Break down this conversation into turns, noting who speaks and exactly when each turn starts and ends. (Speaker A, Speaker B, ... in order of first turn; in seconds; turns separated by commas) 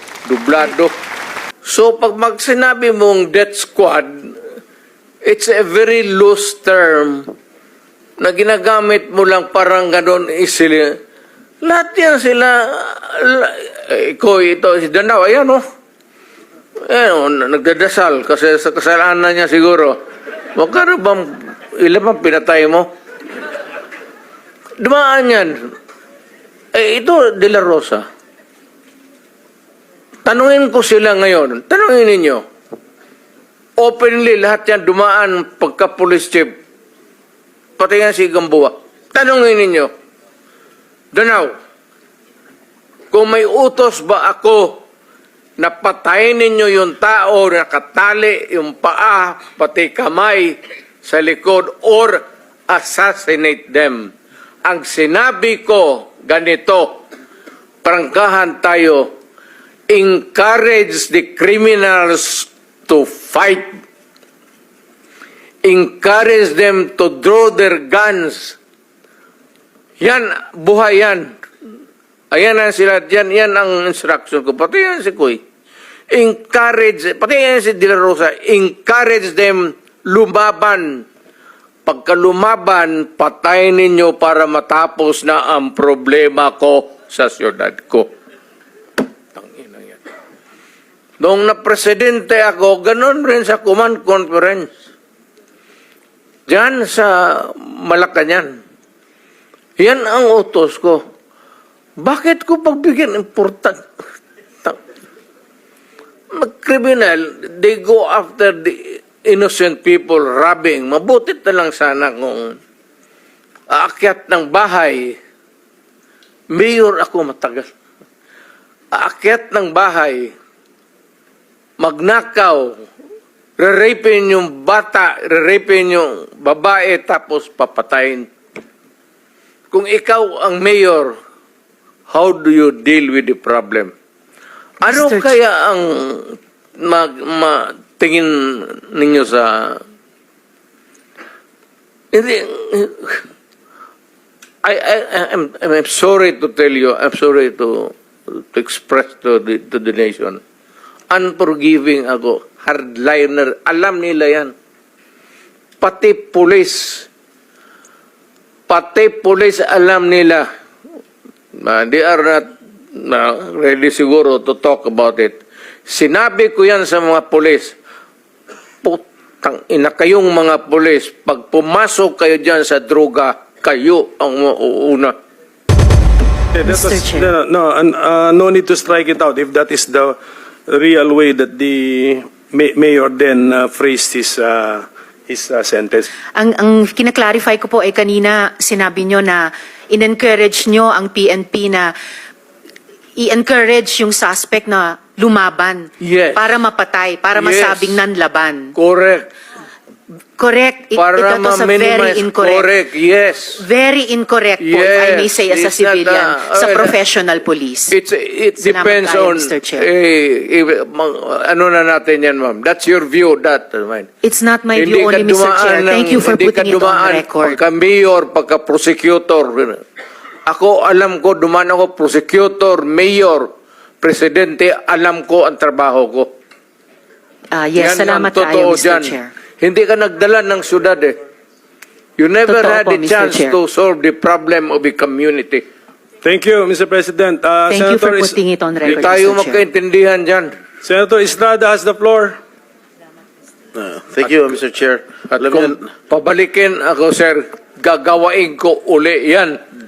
Speaker A: 0.2-1.0, Speaker A: 1.6-4.3, Speaker A: 5.2-7.3, Speaker A: 8.2-10.9, Speaker A: 11.6-15.6, Speaker A: 16.9-20.0, Speaker A: 20.5-22.9, Speaker A: 24.8-25.7, Speaker A: 26.7-28.0, Speaker A: 30.2-32.4, Speaker A: 33.8-36.6, Speaker A: 37.8-39.9, Speaker A: 41.1-41.5, Speaker A: 43.1-44.8, Speaker A: 45.6-54.1, Speaker A: 54.6-57.0, Speaker A: 57.8-59.1, Speaker A: 59.9-63.8, Speaker A: 65.6-68.6, Speaker A: 70.0-71.4, Speaker A: 72.3-75.4, Speaker A: 76.1-81.0, Speaker A: 81.9-88.1, Speaker A: 89.3-90.0, Speaker A: 91.2-94.7, Speaker A: 96.5-98.6, Speaker A: 99.8-101.0, Speaker A: 102.0-103.8, Speaker A: 106.3-112.6, Speaker A: 113.7-115.2, Speaker A: 116.5-117.7, Speaker A: 118.9-120.3, Speaker A: 121.8-122.8, Speaker A: 123.6-128.3, Speaker A: 129.7-131.2, Speaker A: 132.1-133.9, Speaker A: 134.8-139.8, Speaker B: 134.8-135.3, Speaker A: 142.1-143.2, Speaker A: 144.6-150.4, Speaker A: 151.1-154.5, Speaker A: 155.8-157.1, Speaker A: 158.7-160.5, Speaker A: 161.6-167.8, Speaker A: 168.8-175.1, Speaker C: 176.5-180.2, Speaker B: 176.6-177.3, Speaker C: 180.7-186.1, Speaker B: 186.3-191.9, Speaker B: 193.2-198.8, Speaker A: 196.0-196.4, Speaker A: 197.3-198.0, Speaker A: 198.8-199.3, Speaker B: 200.4-202.7, Speaker A: 201.0-203.6, Speaker B: 203.6-207.9, Speaker A: 204.6-206.9, Speaker A: 207.9-214.1, Speaker B: 208.6-209.9, Speaker B: 214.2-217.6, Speaker A: 214.8-219.8, Speaker A: 220.5-223.5, Speaker A: 224.0-226.3, Speaker B: 227.5-229.3, Speaker A: 227.8-231.2, Speaker A: 232.2-235.6, Speaker B: 232.5-233.6, Speaker C: 236.2-238.4, Speaker B: 237.7-239.6, Speaker A: 238.8-240.5, Speaker C: 240.8-242.4, Speaker D: 243.8-245.8, Speaker A: 245.3-249.6